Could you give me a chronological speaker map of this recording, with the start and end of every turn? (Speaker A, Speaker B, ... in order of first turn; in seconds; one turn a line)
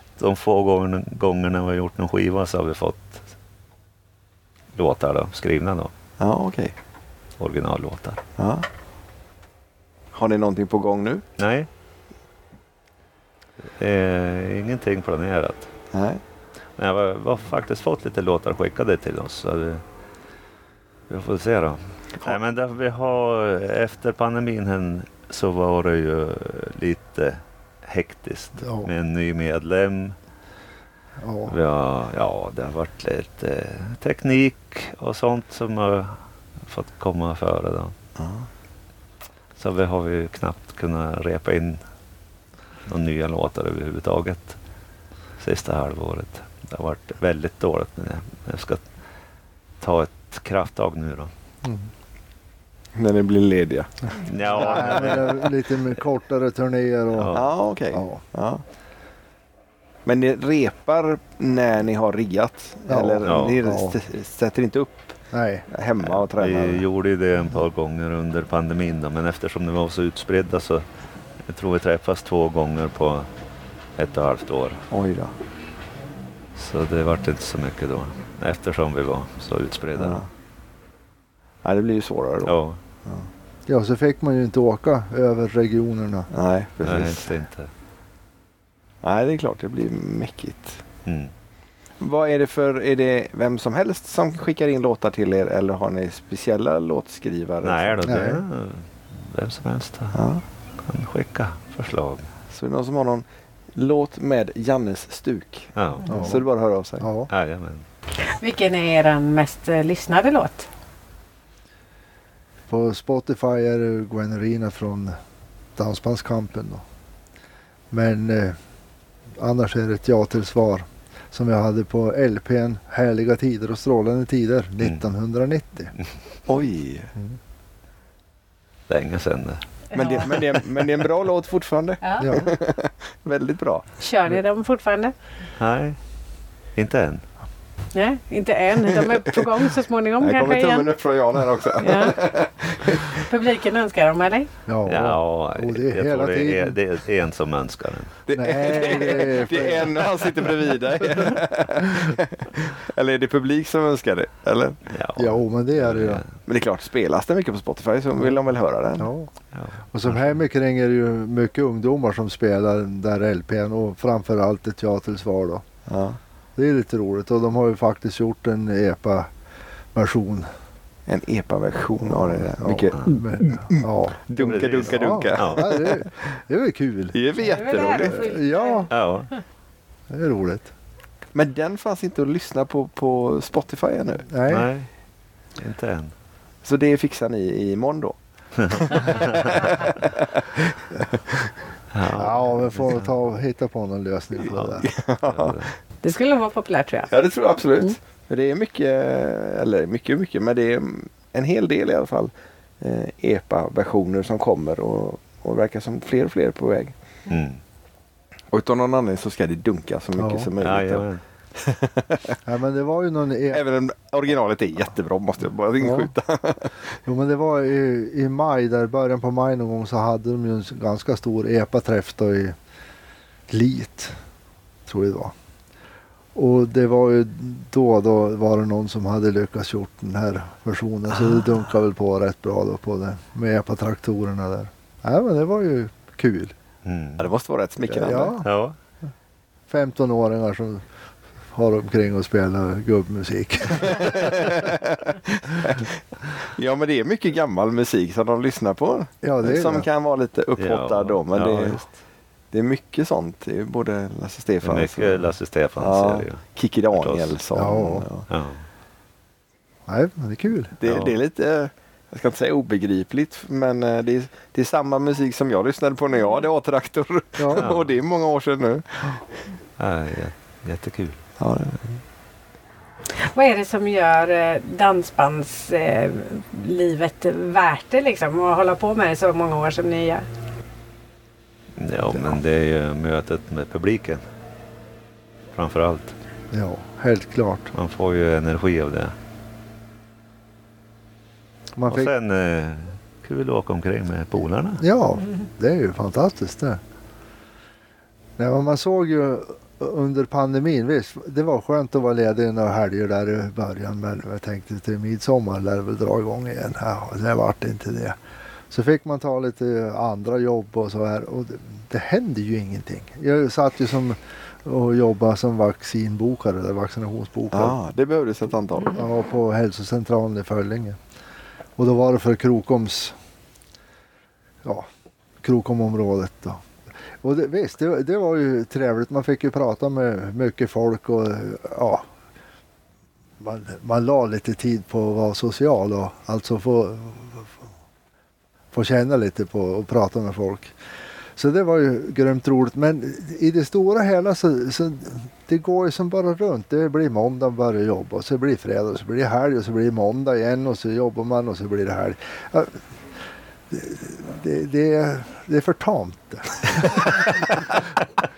Speaker A: 0.2-3.3
Speaker A: 4.7-5.9
Speaker B: 6.2-6.7
Speaker A: 7.4-8.2
Speaker B: 8.4-8.7
Speaker B: 10.1-11.2
Speaker A: 11.4-11.7
Speaker A: 13.8-15.7
Speaker B: 15.9-16.2
Speaker A: 16.8-19.8
Speaker A: 21.1-30.1
Speaker C: 28.6-28.9
Speaker C: 31.2-31.5
Speaker A: 31.5-37.9
Speaker B: 38.2-38.5
Speaker A: 39.6-41.8
Speaker A: 42.9-44.6
Speaker A: 45.4-48.9
Speaker A: 49.8-51.3
Speaker C: 51.6-51.9
Speaker B: 52.9-55.0
Speaker A: 54.2-55.5
Speaker C: 54.5-57.4
Speaker A: 57.1-57.5
Speaker B: 57.3-58.6
Speaker C: 57.9-58.2
Speaker B: 60.0-65.2
Speaker C: 62.9-64.0
Speaker A: 63.2-63.6
Speaker C: 65.3-65.7
Speaker B: 65.7-66.8
Speaker A: 66.0-70.8
Speaker A: 71.4-73.3
Speaker A: 74.0-74.8
Speaker B: 74.9-75.3
Speaker A: 76.5-80.2
Speaker B: 80.0-80.3
Speaker B: 81.6-83.3
Speaker A: 82.4-82.8
Speaker C: 83.7-86.3
Speaker B: 86.3-87.3
Speaker A: 86.8-87.7
Speaker B: 89.0-90.8
Speaker A: 91.0-91.3
Speaker B: 92.0-98.1
Speaker A: 97.6-100.2
Speaker C: 98.0-98.4
Speaker B: 100.1-100.4
Speaker A: 100.8-102.3
Speaker B: 102.5-107.1
Speaker A: 105.8-106.3
Speaker C: 106.1-106.4
Speaker C: 107.0-107.3
Speaker A: 107.3-107.8
Speaker D: 108.2-110.7
Speaker C: 112.7-115.2
Speaker C: 115.8-116.8
Speaker C: 117.9-118.6
Speaker C: 119.3-125.9
Speaker B: 126.5-127.1
Speaker A: 128.9-129.6
Speaker D: 129.9-130.2
Speaker B: 129.9-133.9
Speaker D: 132.0-132.4
Speaker C: 132.2-132.5
Speaker D: 134.0-135.1
Speaker A: 135.6-136.0
Speaker A: 136.8-137.2
Speaker D: 137.9-140.9
Speaker B: 140.2-143.2
Speaker D: 141.8-142.2
Speaker D: 143.2-144.5
Speaker C: 144.7-146.8
Speaker A: 144.9-148.2
Speaker B: 148.3-154.8
Speaker C: 148.3-150.3
Speaker A: 154.9-156.3
Speaker C: 155.2-156.2
Speaker B: 156.4-159.1
Speaker C: 159.0-159.3
Speaker A: 159.5-160.3
Speaker C: 159.9-165.6
Speaker B: 165.9-166.2
Speaker C: 166.6-169.3
Speaker C: 169.9-170.5
Speaker B: 171.1-176.1
Speaker C: 172.0-174.2
Speaker A: 174.4-175.9
Speaker C: 174.8-177.2
Speaker B: 177.1-178.2
Speaker D: 177.4-178.9
Speaker C: 177.8-178.9
Speaker A: 178.9-179.3
Speaker C: 180.1-180.7
Speaker B: 181.3-184.3
Speaker C: 184.3-184.7
Speaker A: 184.5-184.9
Speaker A: 185.6-186.1
Speaker B: 186.6-191.5
Speaker A: 188.6-189.7
Speaker A: 191.9-193.1
Speaker C: 192.1-194.9
Speaker A: 194.5-195.7
Speaker B: 194.8-195.7
Speaker D: 196.0-197.1
Speaker B: 197.1-206.9
Speaker A: 207.3-207.6
Speaker B: 208.5-212.4
Speaker C: 210.2-210.5
Speaker A: 210.6-211.2
Speaker C: 212.4-213.6
Speaker B: 213.5-216.9
Speaker C: 215.8-216.1
Speaker C: 217.0-222.6
Speaker C: 223.5-224.1
Speaker C: 224.8-225.3
Speaker C: 226.3-236.5
Speaker A: 236.8-237.3
Speaker B: 237.2-238.3
Speaker C: 237.9-238.5
Speaker A: 238.4-238.7
Speaker C: 239.7-240.8
Speaker C: 241.5-244.6
Speaker B: 243.8-251.8
Speaker C: 249.2-249.9
Speaker A: 250.6-251.9
Speaker B: 252.5-258.2
Speaker A: 254.6-257.4
Speaker C: 257.5-258.1
Speaker A: 258.3-258.6
Speaker C: 259.9-260.7
Speaker B: 260.8-269.2
Speaker A: 260.8-261.2
Speaker C: 267.4-267.7
Speaker A: 267.5-267.9
Speaker A: 269.8-271.2
Speaker B: 271.4-272.0
Speaker D: 273.2-280.2
Speaker A: 281.8-284.2
Speaker A: 285.5-286.1
Speaker C: 286.5-287.7
Speaker A: 287.7-289.1
Speaker C: 291.8-292.1
Speaker A: 291.9-294.8
Speaker C: 294.8-296.8
Speaker C: 298.4-308.2
Speaker C: 308.7-317.8
Speaker B: 317.5-319.0
Speaker C: 318.9-321.0
Speaker C: 321.8-323.1
Speaker C: 325.4-326.6
Speaker C: 327.2-332.1
Speaker C: 333.4-337.5
Speaker C: 338.7-340.7
Speaker C: 341.4-352.8
Speaker C: 353.7-357.4